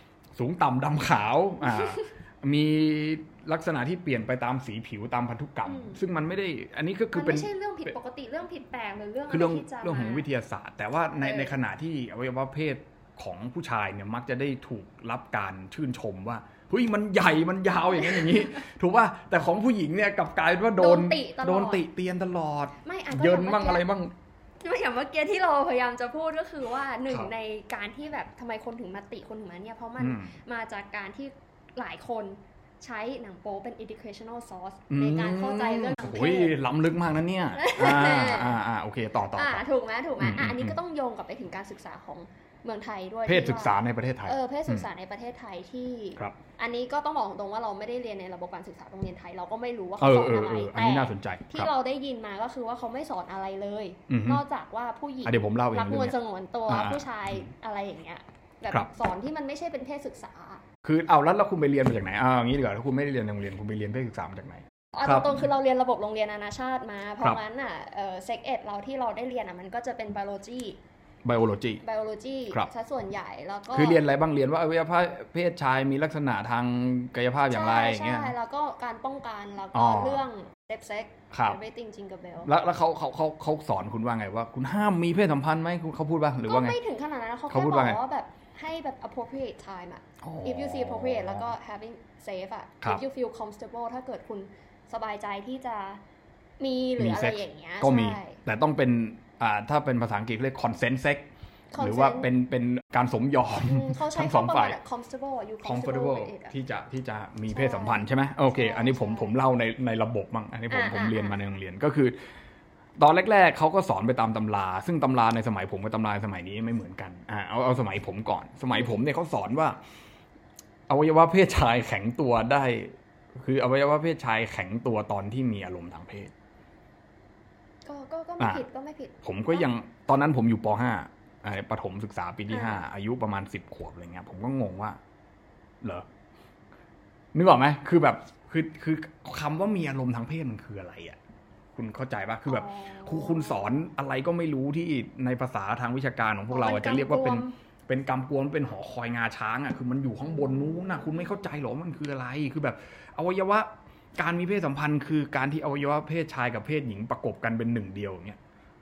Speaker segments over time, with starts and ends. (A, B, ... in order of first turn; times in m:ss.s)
0:00.4-0:07.9 A
0:01.6-0:02.1 B
0:05.6-0:06.0 B
0:07.1-0:10.3 B
0:09.3-0:24.1 A
0:11.2-0:11.6 B
0:18.1-0:18.4 B
0:20.8-0:21.8 B
0:22.8-0:23.8 B
0:24.6-0:36.6 B
0:30.0-0:30.3 A
0:34.9-0:39.6 A
0:37.6-0:38.6 B
0:39.3-1:00.6 B
0:40.2-0:40.8 A
0:43.3-0:44.9 A
0:50.0-0:51.7 A
0:54.1-0:54.4 A
0:55.2-0:56.2 A
0:56.7-0:57.5 A
1:00.8-1:05.5 A
1:04.9-1:10.8 B
1:11.2-1:11.8 A
1:11.8-1:14.0 B
1:13.7-1:18.3 A
1:17.5-1:22.5 B
1:19.7-1:20.2 A
1:21.3-1:21.6 A
1:22.4-1:26.8 A
1:26.4-1:36.0 B
1:27.5-1:28.0 A
1:30.2-1:31.5 A
1:36.6-1:38.4 B
1:37.0-1:44.8 A
1:41.7-1:42.3 B
1:43.6-1:46.6 B
1:45.6-1:52.2 A
1:47.5-1:49.3 B
1:50.7-1:51.4 B
1:53.0-1:59.8 A
2:00.9-2:06.3 A
2:07.8-2:09.7 B
2:09.2-2:15.0 A
2:12.5-2:12.8 B
2:17.3-2:21.2 A
2:21.8-2:38.4 A
2:22.5-2:23.8 B
2:26.5-2:27.6 B